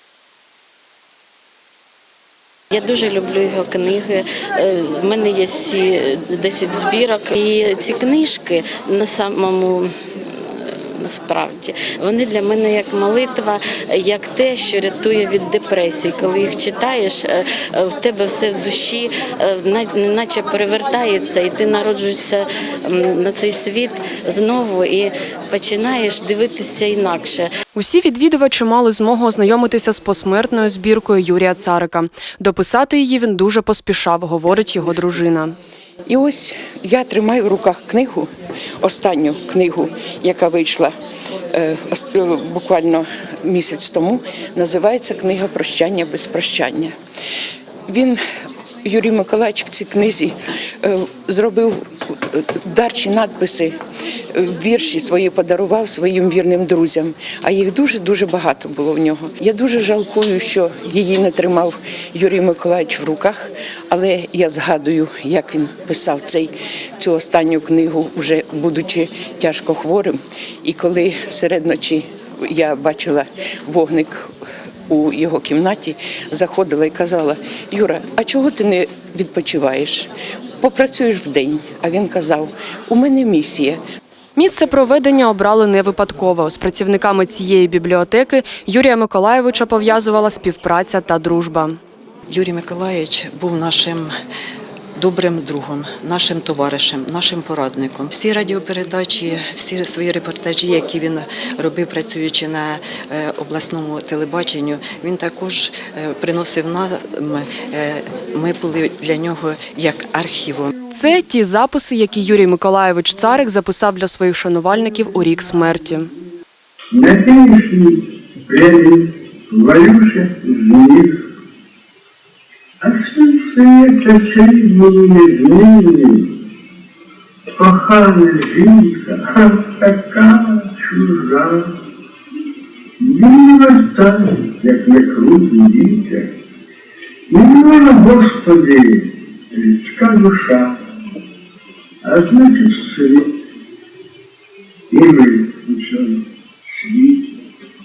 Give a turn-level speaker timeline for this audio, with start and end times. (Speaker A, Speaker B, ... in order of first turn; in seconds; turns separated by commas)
Speaker A: 2.7-27.5, Speaker B: 27.7-35.5, Speaker C: 36.0-38.3, Speaker C: 38.8-40.9, Speaker C: 41.5-46.9, Speaker C: 47.9-48.2, Speaker C: 48.8-53.8, Speaker C: 54.3-74.3, Speaker C: 74.9-80.1, Speaker C: 80.6-83.8, Speaker B: 84.3-91.8, Speaker D: 92.3-94.1, Speaker D: 95.0-110.7, Speaker B: 110.9-116.1, Speaker E: 116.9-121.2, Speaker E: 122.8-126.4, Speaker E: 127.6-131.8, Speaker E: 133.0-136.3, Speaker E: 137.3-140.7, Speaker E: 142.0-143.3, Speaker E: 144.9-147.3